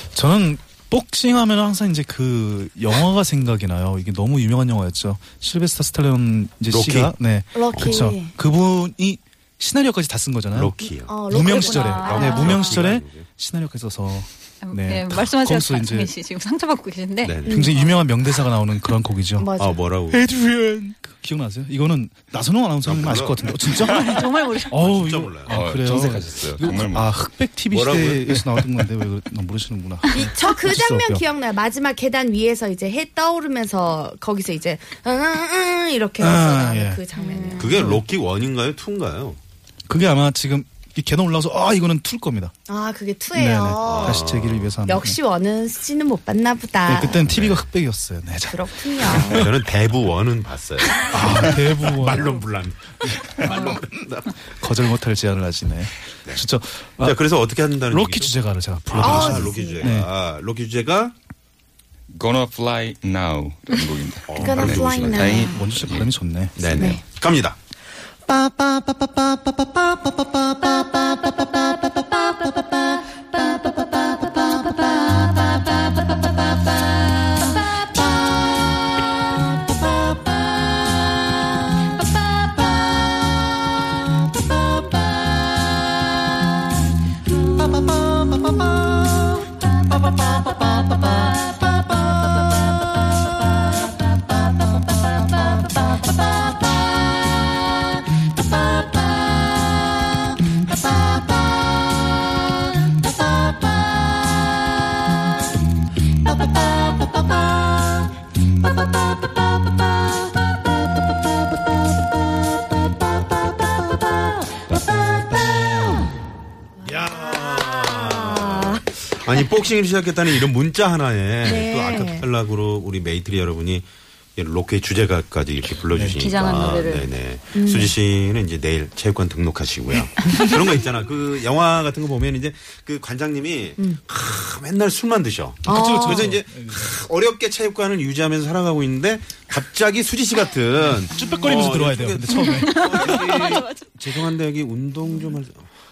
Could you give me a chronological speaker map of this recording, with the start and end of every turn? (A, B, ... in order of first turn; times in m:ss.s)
0:00.1-0:10.8 A
0:06.7-0:07.1 B
0:07.5-0:08.3 C
0:10.5-0:11.2 B
0:11.1-0:12.6 C
0:11.3-0:16.1 A
0:11.4-0:12.8 D
0:12.0-0:13.3 B
0:14.6-0:17.6 D
0:17.2-0:17.7 B
0:17.5-0:19.5 A
0:17.5-0:17.9 C
0:19.4-0:19.8 C
0:19.6-0:20.2 B
0:20.1-0:31.2 A
0:22.8-0:23.6 B
0:23.8-0:24.9 D
0:24.7-0:25.7 B
0:25.5-0:27.2 E
0:27.7-0:28.4 B
0:30.1-0:37.8 C
0:36.2-0:37.0 A
0:37.2-0:37.9 D
0:37.6-0:39.4 B
0:39.9-0:42.5 A
0:42.7-0:44.2 C
0:43.4-0:45.2 A
0:43.8-0:44.7 B
0:44.9-0:47.2 C
0:46.9-0:49.5 A
0:47.2-0:47.7 B
0:48.5-0:49.5 C
0:49.2-0:54.3 B
0:51.1-0:52.4 A
0:53.4-0:53.8 A
0:54.5-0:57.2 A
0:57.0-0:58.3 B
0:57.9-1:00.1 A
0:58.9-1:01.2 B
0:59.0-0:59.9 C
1:02.1-1:06.1 E
1:04.3-1:05.5 B
1:04.4-1:05.6 C
1:05.5-1:06.9 A
1:06.6-1:07.6 B
1:06.8-1:07.0 C
1:08.3-1:09.1 A
1:17.3-1:18.1 D
1:56.8-1:58.9 C
1:56.8-2:25.7 B
2:01.4-2:02.3 C
2:05.9-2:06.3 A
2:06.2-2:07.0 D
2:07.5-2:07.9 C
2:15.7-2:16.3 C
2:15.7-2:16.9 A
2:21.0-2:23.2 A
2:22.6-2:23.8 D